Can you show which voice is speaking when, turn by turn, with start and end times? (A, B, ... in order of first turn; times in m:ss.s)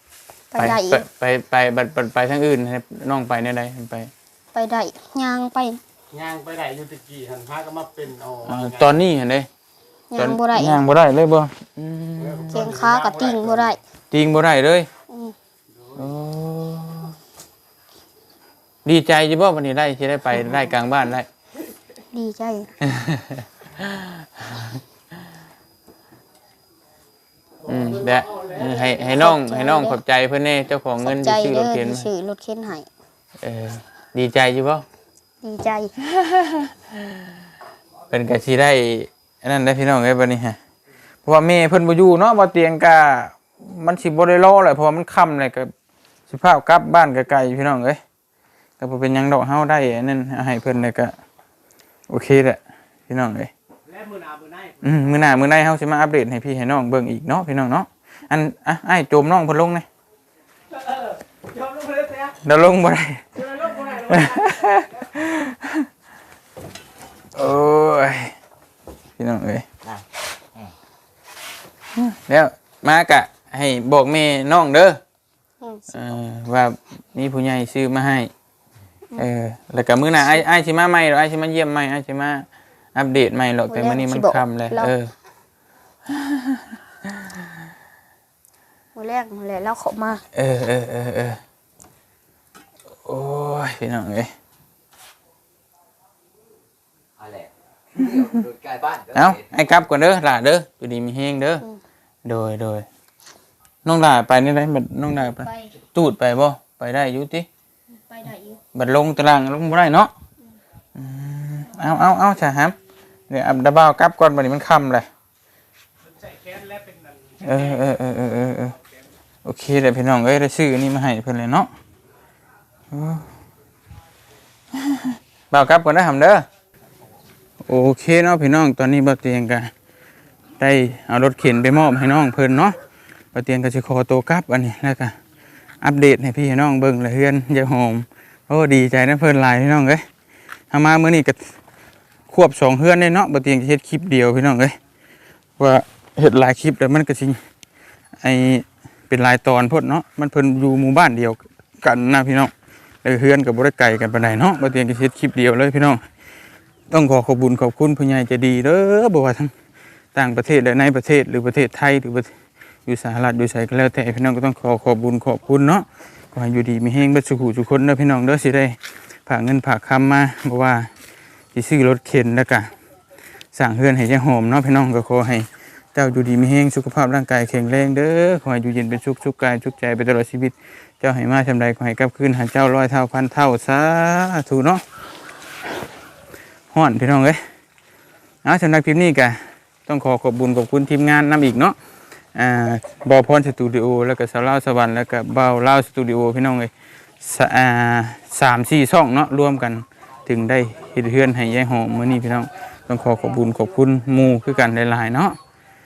0:00.5-0:01.0 A
0:00.6-0:04.1 B
0:04.5-0:05.8 A
0:06.1-0:09.0 C
0:08.4-0:09.5 B
0:10.1-0:10.8 A
0:10.2-0:12.7 B
0:12.2-0:13.7 C
0:12.5-0:13.8 A
0:14.1-0:14.9 B
0:15.1-0:15.3 A
0:16.0-0:17.1 B
0:18.8-0:21.3 B
0:22.1-0:22.7 A
0:22.8-0:24.7 B
0:27.7-0:32.1 B
0:27.9-0:29.1 C
0:29.1-0:30.0 A
0:31.0-0:32.9 A
0:33.4-0:34.8 B
0:35.4-0:35.9 A
0:36.1-0:37.1 B
0:38.1-0:40.6 B
0:41.2-0:45.7 B
0:46.3-0:48.0 B
0:48.8-0:51.1 B
0:52.1-0:53.5 B
0:53.9-0:54.9 C
0:54.8-0:59.8 B
1:01.5-1:02.3 C
1:02.4-1:03.2 B
1:03.4-1:04.9 C
1:03.8-1:05.9 B
1:07.3-1:08.3 B
1:09.2-1:09.6 B
1:12.0-1:15.0 B
1:15.6-1:16.0 A
1:15.9-1:18.3 B
1:19.2-1:25.1 B
1:23.7-1:24.9 A
1:26.1-1:26.8 B
1:29.0-1:30.2 A
1:30.3-1:31.4 B
1:33.0-1:34.3 B
1:37.2-1:39.4 D
1:39.1-1:41.6 B
1:42.2-1:42.8 B
1:43.8-1:47.5 B
1:45.2-1:45.7 A
1:48.0-1:48.6 A
1:48.7-1:50.1 B
1:50.9-1:52.7 B
1:53.3-1:55.1 B
1:56.3-1:57.0 C
1:57.4-1:58.8 B
1:57.5-1:57.8 C
1:59.4-2:01.7 B
2:02.9-2:03.2 B
2:04.8-2:06.4 B
2:07.6-2:09.7 B
2:10.6-2:12.8 B
2:13.3-2:15.1 B
2:15.8-2:20.0 B
2:20.7-2:21.5 B
2:22.3-2:24.8 B
2:25.6-2:27.4 B
2:28.2-2:32.5 B
2:33.0-2:36.0 B
2:36.9-2:39.5 B
2:40.1-2:42.3 B
2:42.8-2:50.9 B
2:51.5-2:52.7 B
2:53.5-3:04.8 B
3:06.7-3:07.4 B
3:08.4-3:11.8 B
3:12.3-3:25.4 B